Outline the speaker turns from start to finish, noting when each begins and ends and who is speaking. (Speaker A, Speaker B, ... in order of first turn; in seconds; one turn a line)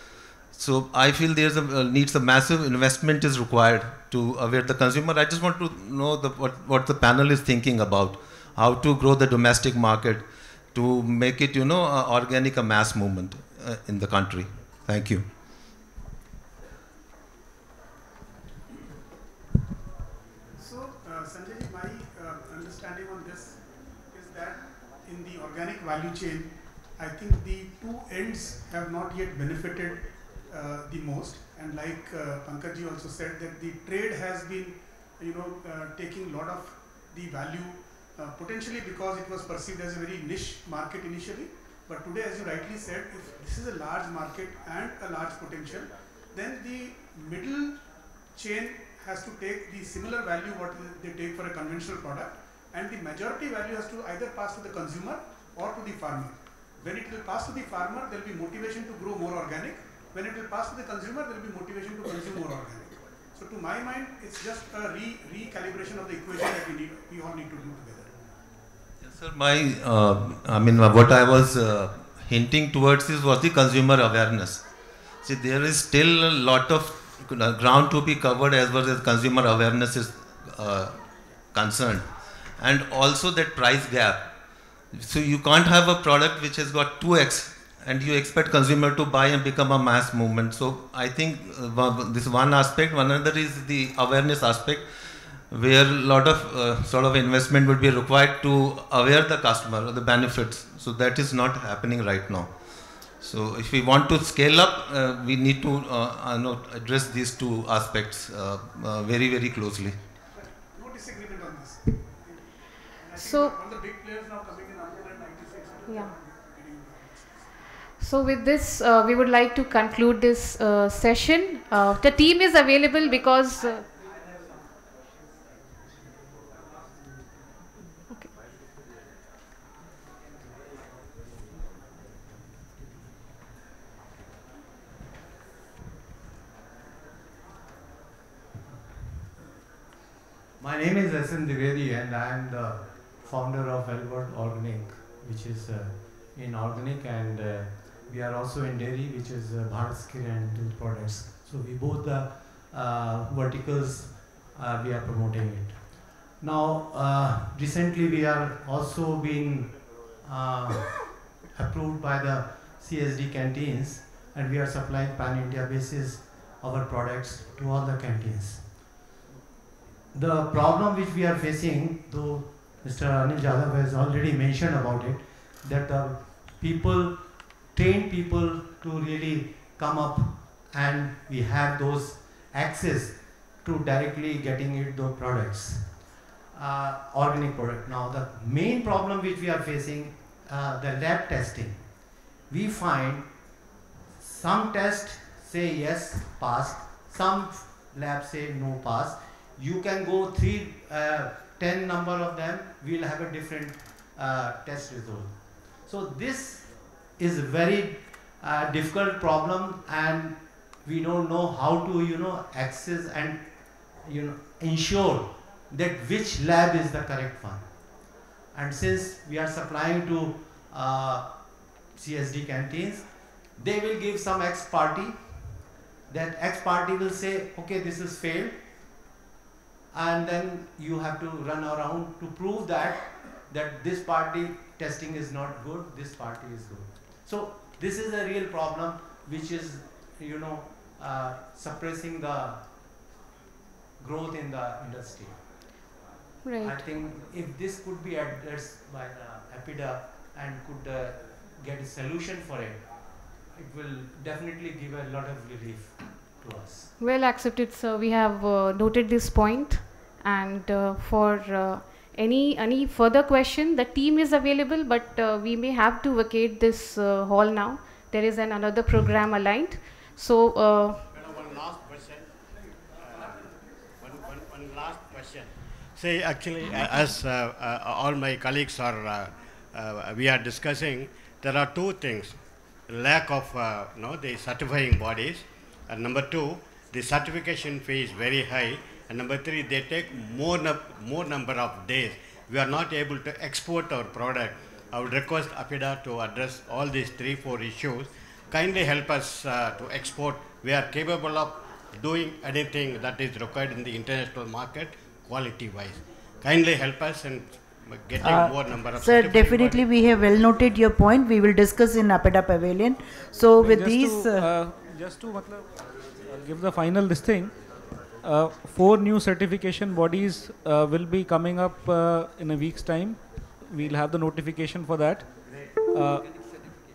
Speaker A: 0.5-15.3
Speaker B: 20.6-47.8
Speaker B: 48.3-68.1
Speaker A: 69.0-74.7
Speaker A: 75.2-84.3
Speaker A: 84.9-110.0
Speaker B: 110.3-117.5
Speaker C: 113.2-113.5
Speaker C: 115.8-116.1
Speaker C: 118.0-123.9
Speaker D: 140.6-168.7
Speaker D: 170.1-193.6
Speaker D: 194.1-217.8
Speaker D: 218.5-228.6
Speaker D: 229.9-242.6
Speaker D: 244.0-245.5
Speaker C: 246.4-246.8
Speaker D: 246.6-256.9
Speaker C: 257.0-271.0
Speaker E: 271.1-272.4
Speaker E: 273.0-273.4
Speaker E: 274.0-309.9
Speaker F: 308.2-314.5
Speaker G: 313.6-317.6
Speaker G: 318.2-325.3
Speaker G: 325.9-326.2